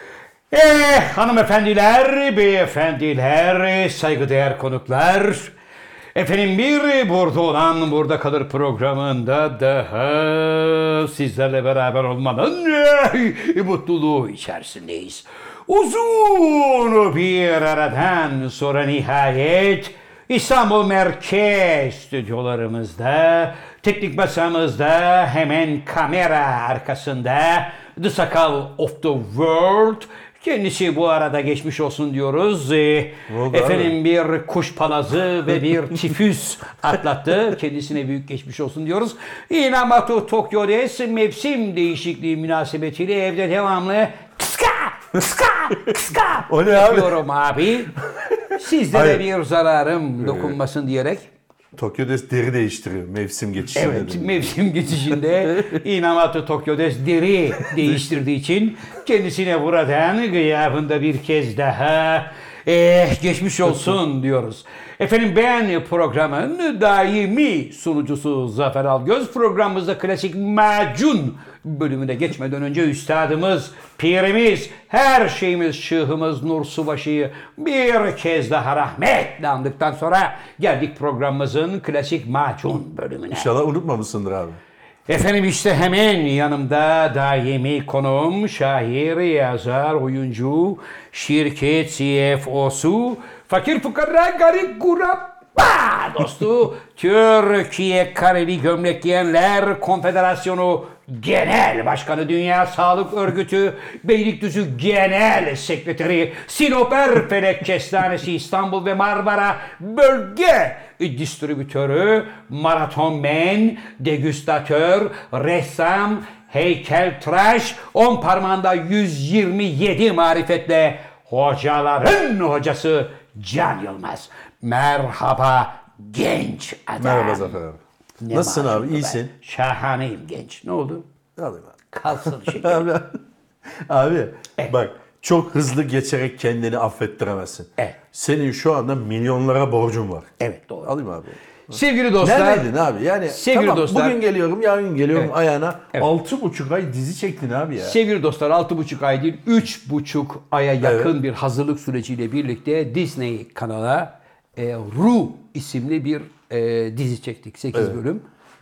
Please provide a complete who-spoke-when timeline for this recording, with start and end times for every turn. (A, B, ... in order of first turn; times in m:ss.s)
0:00.5-0:05.5 A
0:06.2-0:48.0 A
0:33.3-0:34.0 B
0:46.5-0:47.2 B
0:48.5-0:51.3 A
0:48.9-0:49.2 B
0:50.2-0:50.6 B
0:51.7-0:54.5 B
0:53.7-1:23.5 A
0:55.4-0:55.8 B
1:23.3-1:24.6 B
1:25.1-2:07.6 A
2:07.0-2:09.3 B
2:08.2-2:11.0 A
2:11.4-2:13.2 B
2:11.9-2:12.9 A
2:13.9-2:20.3 B
2:20.4-2:20.9 A
2:20.8-2:28.0 B
2:21.7-2:22.7 A
2:23.3-2:24.2 A
2:27.8-2:38.2 A
2:30.8-2:31.1 B
2:37.7-2:38.0 B